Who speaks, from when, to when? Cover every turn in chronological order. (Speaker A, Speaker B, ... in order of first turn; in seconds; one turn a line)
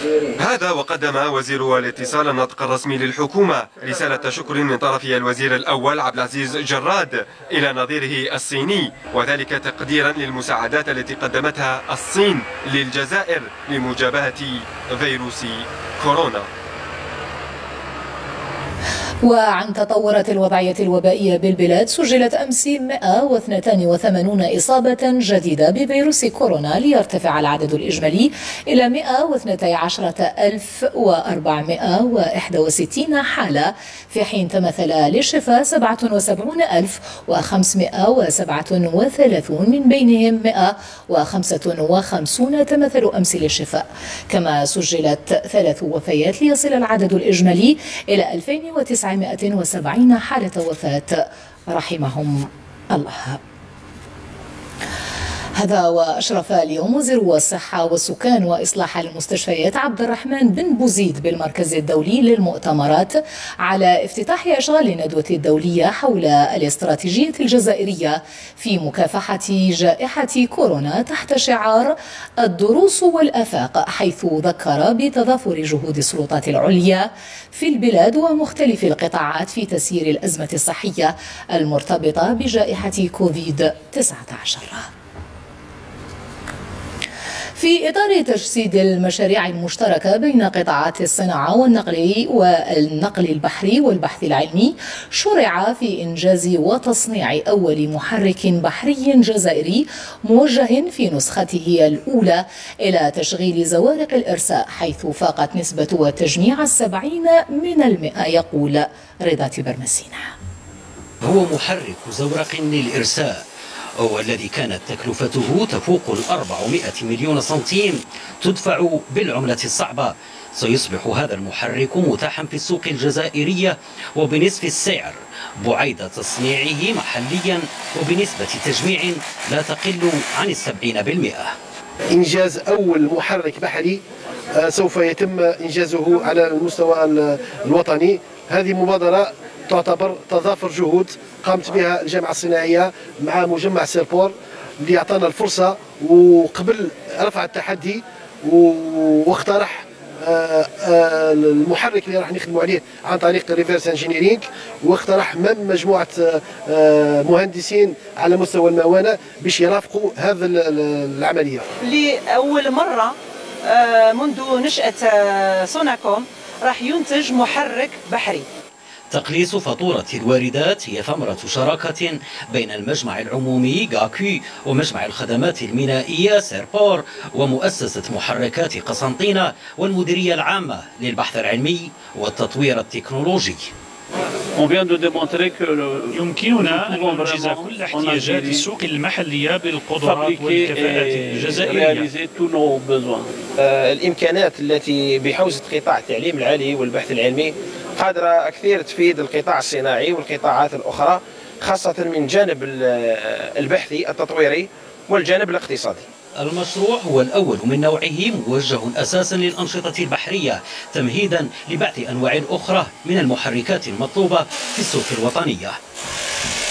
Speaker A: 0.4-16.5
Speaker B: 19.2-53.4
Speaker B: 55.5-84.8
Speaker B: 87.5-110.3
Speaker C: 111.2-113.4
Speaker C: 114.0-131.5
Speaker D: 132.1-134.0
Speaker D: 134.6-161.6
Speaker E: 161.8-163.1
Speaker E: 163.7-168.4
Speaker C: 169.1-183.7
Speaker F: 184.6-188.7
Speaker G: 186.2-192.0
Speaker F: 190.0-206.1
Speaker C: 206.4-215.8